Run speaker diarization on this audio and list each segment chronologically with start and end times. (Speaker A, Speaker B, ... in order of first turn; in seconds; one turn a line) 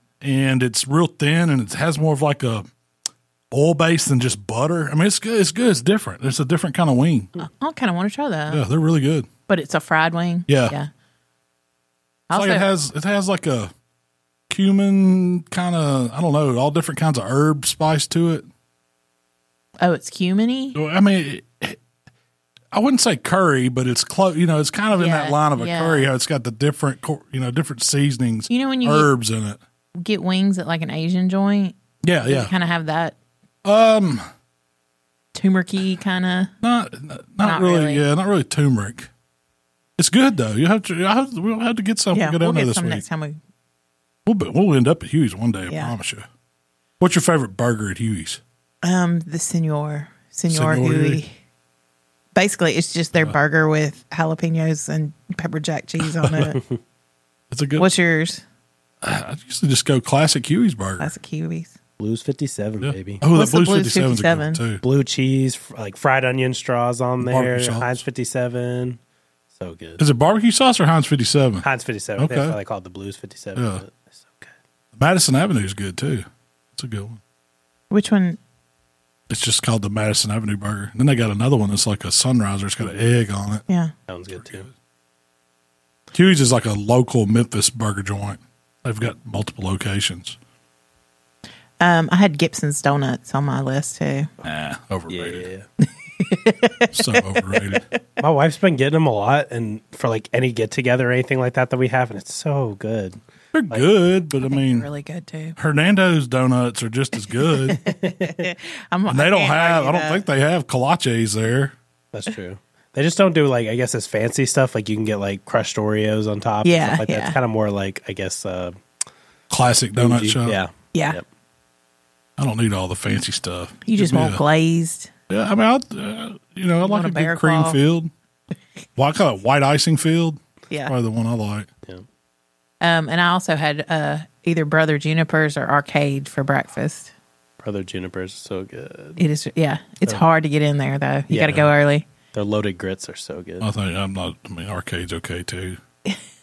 Speaker A: 0.2-2.6
Speaker A: 3.5-7.3
Speaker B: 7.4-8.6
Speaker A: 8.5-9.3
Speaker B: 9.5-10.9
Speaker A: 10.5-10.7
Speaker B: 12.3-12.7
Speaker A: 12.3-13.7
Speaker A: 14.5-18.4
Speaker B: 19.8-20.8
Speaker A: 20.7-21.8
Speaker A: 22.7-29.6
Speaker B: 24.9-26.1
Speaker B: 28.5-29.1
Speaker B: 30.0-33.1
Speaker A: 32.0-32.5
Speaker A: 33.6-34.2
Speaker B: 35.3-36.5
Speaker A: 36.6-39.1
Speaker B: 37.4-38.0
Speaker A: 40.0-43.0
Speaker B: 42.1-43.4
Speaker A: 44.2-46.2
Speaker B: 45.7-45.9
Speaker A: 47.0-48.4
Speaker B: 48.8-51.3
Speaker A: 50.5-51.2
Speaker B: 52.3-56.6
Speaker A: 56.2-56.5
Speaker A: 57.5-57.9
Speaker B: 57.8-58.4
Speaker A: 59.0-61.1
Speaker B: 61.0-61.7
Speaker C: 62.0-63.2
Speaker A: 62.8-64.8
Speaker B: 63.3-64.6
Speaker C: 64.8-69.0
Speaker A: 67.2-68.0
Speaker C: 69.6-70.0
Speaker A: 70.0-71.6
Speaker C: 71.6-74.5
Speaker A: 72.2-72.6
Speaker A: 73.5-73.8
Speaker A: 74.9-77.2
Speaker B: 77.9-78.4
Speaker A: 79.3-83.6
Speaker C: 84.1-84.7
Speaker A: 84.5-84.7
Speaker A: 86.1-90.4
Speaker B: 91.8-94.3
Speaker A: 94.4-95.5
Speaker C: 95.1-95.7
Speaker B: 96.2-97.8
Speaker A: 96.9-97.8
Speaker C: 98.2-103.9
Speaker A: 103.5-104.9
Speaker B: 104.4-105.5
Speaker A: 105.6-107.8
Speaker B: 107.7-110.2
Speaker C: 107.8-108.5
Speaker A: 109.1-111.7
Speaker C: 112.1-118.8
Speaker B: 116.6-117.4
Speaker A: 119.5-120.6
Speaker C: 120.0-121.2
Speaker B: 120.9-121.2
Speaker A: 122.4-124.4
Speaker B: 123.8-125.1
Speaker A: 125.3-128.1
Speaker B: 126.8-127.8
Speaker A: 128.9-131.7
Speaker B: 132.8-137.1
Speaker C: 137.6-139.2
Speaker B: 139.2-142.1
Speaker C: 141.3-141.7
Speaker C: 142.3-143.7
Speaker A: 143.6-145.8